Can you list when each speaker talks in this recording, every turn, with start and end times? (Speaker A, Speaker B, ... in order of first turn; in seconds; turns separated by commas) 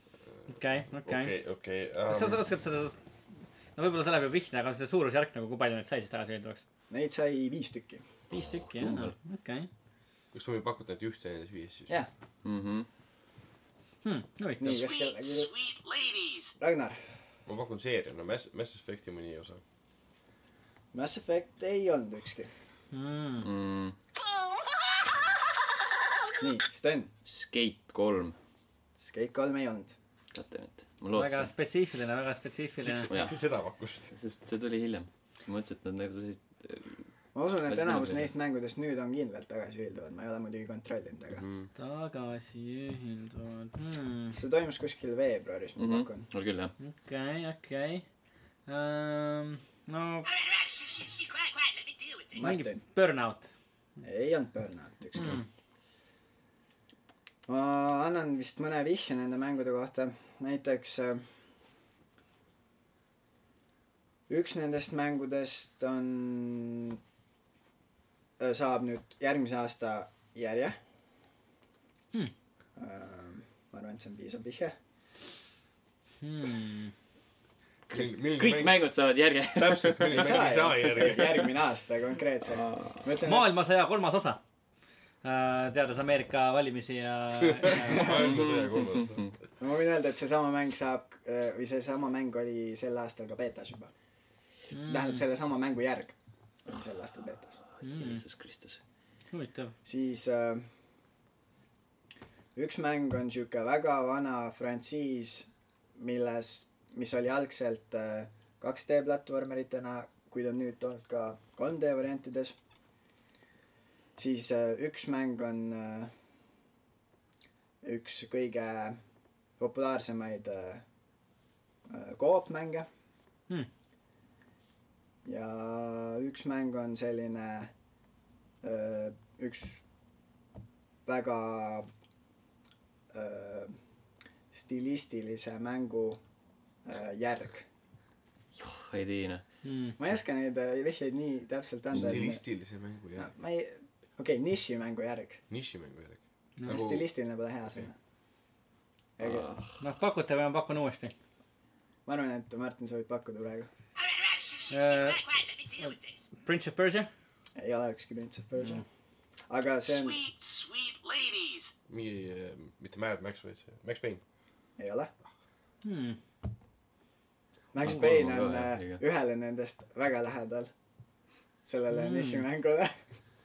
Speaker A: 0.5-1.3, Speaker B: 1.0-2.4, Speaker A: 2.1-3.0, Speaker A: 3.7-6.6, Speaker C: 6.9-8.0, Speaker A: 8.3-9.7, Speaker D: 8.6-9.1, Speaker B: 10.3-11.9, Speaker D: 12.4-12.9, Speaker A: 14.0-14.8, Speaker C: 14.6-15.5, Speaker E: 14.7-16.5, Speaker C: 16.6-17.0, Speaker B: 17.4-19.6, Speaker C: 20.9-22.5, Speaker A: 22.9-23.5, Speaker D: 23.4-23.9, Speaker C: 26.4-27.1, Speaker D: 27.2-28.4, Speaker C: 29.0-30.0, Speaker D: 30.3-31.5, Speaker A: 31.1-33.1, Speaker B: 32.9-34.1, Speaker D: 33.1-33.4, Speaker D: 34.1-37.0, Speaker C: 37.3-41.4, Speaker D: 37.7-38.3, Speaker B: 41.3-41.7, Speaker A: 41.8-44.4, Speaker C: 44.3-46.3, Speaker D: 45.8-46.7, Speaker A: 46.8-48.0, Speaker A: 48.7-50.3, Speaker E: 50.2-52.4, Speaker C: 52.3-52.8, Speaker A: 52.4-53.5, Speaker C: 54.0-55.4, Speaker A: 55.1-55.4, Speaker C: 57.5-61.3, Speaker C: 64.3-67.0, Speaker C: 68.4-70.8, Speaker C: 72.8-74.8, Speaker A: 76.2-76.9, Speaker D: 77.9-81.3, Speaker B: 77.9-78.9, Speaker B: 79.5-81.4, Speaker C: 80.1-83.5, Speaker D: 82.5-83.0, Speaker A: 83.2-84.4, Speaker A: 85.2-88.3, Speaker B: 87.5-89.3, Speaker C: 87.9-88.5, Speaker D: 88.0-89.3, Speaker C: 89.6-93.9, Speaker A: 94.7-95.2, Speaker C: 94.9-96.1, Speaker C: 96.7-97.6, Speaker A: 97.8-98.2, Speaker D: 97.8-98.8, Speaker A: 99.3-99.7, Speaker C: 99.8-100.7, Speaker C: 102.5-112.5, Speaker C: 114.2-116.1, Speaker C: 117.8-119.0, Speaker C: 119.6-120.8, Speaker C: 121.9-122.8, Speaker C: 125.2-127.7, Speaker C: 128.6-129.8, Speaker C: 131.1-131.9, Speaker C: 133.1-133.8, Speaker C: 134.5-136.2, Speaker C: 136.8-137.7, Speaker D: 138.6-139.4, Speaker A: 139.6-140.0, Speaker C: 140.0-142.4, Speaker B: 141.9-143.3, Speaker C: 143.2-145.4, Speaker B: 145.5-147.0, Speaker C: 146.7-147.9, Speaker C: 149.2-149.5, Speaker D: 149.2-149.6, Speaker A: 149.8-151.1, Speaker C: 152.1-153.7, Speaker E: 154.0-156.2, Speaker A: 154.7-155.2, Speaker A: 155.8-157.1, Speaker C: 157.6-158.8, Speaker C: 159.5-160.2, Speaker E: 159.8-161.7, Speaker B: 161.9-164.2, Speaker C: 164.8-165.1, Speaker A: 165.8-166.2, Speaker C: 167.7-170.7, Speaker D: 167.8-169.0, Speaker C: 171.7-173.0, Speaker A: 171.9-172.4